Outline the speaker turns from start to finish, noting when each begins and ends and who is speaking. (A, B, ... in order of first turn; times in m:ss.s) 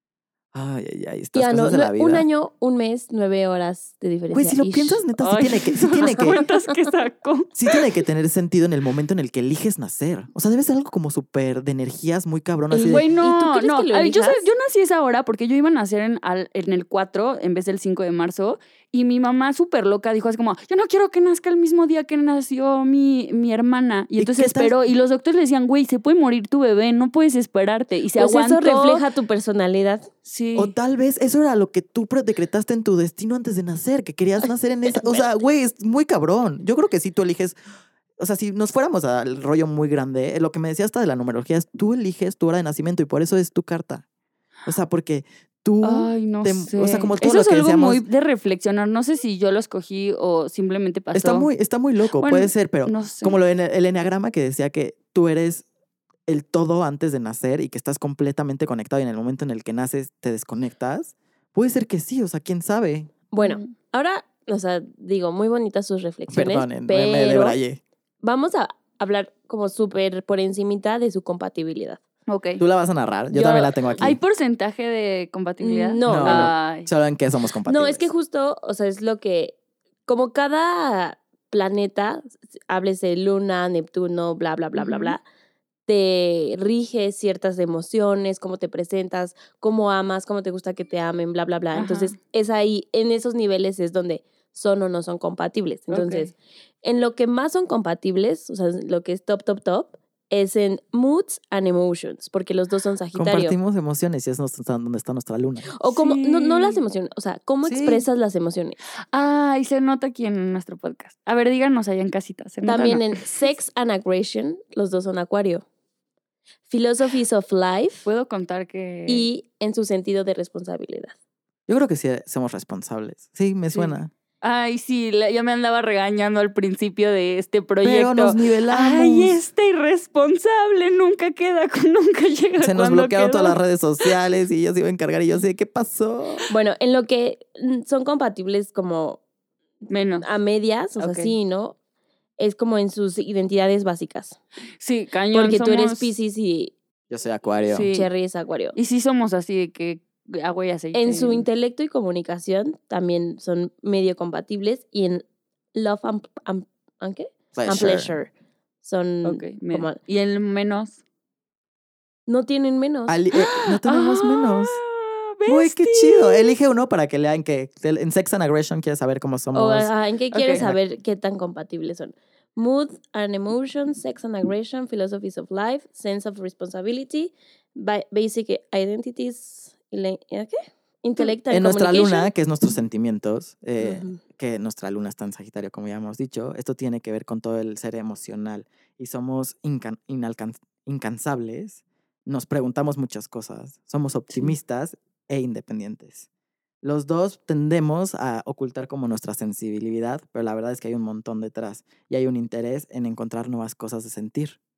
0:00.5-0:02.2 A
0:01.3-0:05.0 B
0:04.3-0:06.4 A
0:05.2-0:07.8 C
0:07.6-0:13.1 A
0:12.7-0:14.5 B
0:12.7-0:29.0 C
0:24.2-0:24.7 A
0:28.2-0:30.1 B
0:30.2-0:30.7 C
0:30.6-0:37.6 A
0:34.9-0:35.3 B
0:38.2-0:44.0 A
0:44.6-0:48.0 A
0:45.8-0:51.5 C
0:51.1-0:55.6 A
0:52.2-0:53.4 C
0:56.3-1:03.1 A
1:03.3-1:07.6 B
1:03.4-1:03.7 C
1:06.3-1:07.8 A
1:08.2-1:12.0 B
1:12.3-1:12.6 C
1:12.6-1:14.2 A
1:13.3-1:14.0 B
1:14.0-1:16.9 C
1:15.6-1:16.6 B
1:16.0-1:18.1 A
1:17.6-1:25.2 B
1:24.7-1:25.2 C
1:25.9-1:43.6 B
1:31.7-1:32.2 C
1:35.9-1:36.3 C
1:43.1-1:45.7 A
1:45.7-1:48.8 B
1:45.9-1:46.8 C
1:47.6-1:48.0 A
1:49.1-1:53.5 C
1:52.6-1:55.6 B
1:56.7-1:58.1 B
1:58.0-1:59.3 C
1:59.1-2:01.1 B
2:01.7-2:04.1 A
2:03.7-2:13.6 C
2:07.8-2:09.4 A
2:12.6-2:16.5 A
2:16.5-2:19.2 B
2:19.9-2:20.3 C
2:20.2-2:21.8 B
2:21.0-2:21.3 C
2:22.4-2:24.4 B
2:24.8-2:26.1 C
2:25.3-2:26.7 B
2:27.1-2:27.9 A
2:27.7-2:28.1 C
2:27.8-2:28.8 B
2:28.8-2:31.5 C
2:30.9-2:38.3 B
2:37.5-2:38.2 A
2:38.8-2:40.0 B
2:39.2-2:41.0 C
2:42.3-2:43.2 B
2:43.1-2:44.8 A
2:43.3-2:46.6 C
2:45.5-2:49.9 A
2:49.5-3:02.3 B
2:50.3-2:50.6 C
3:01.5-3:16.3 A
3:03.8-3:04.2 B
3:16.8-3:24.6 A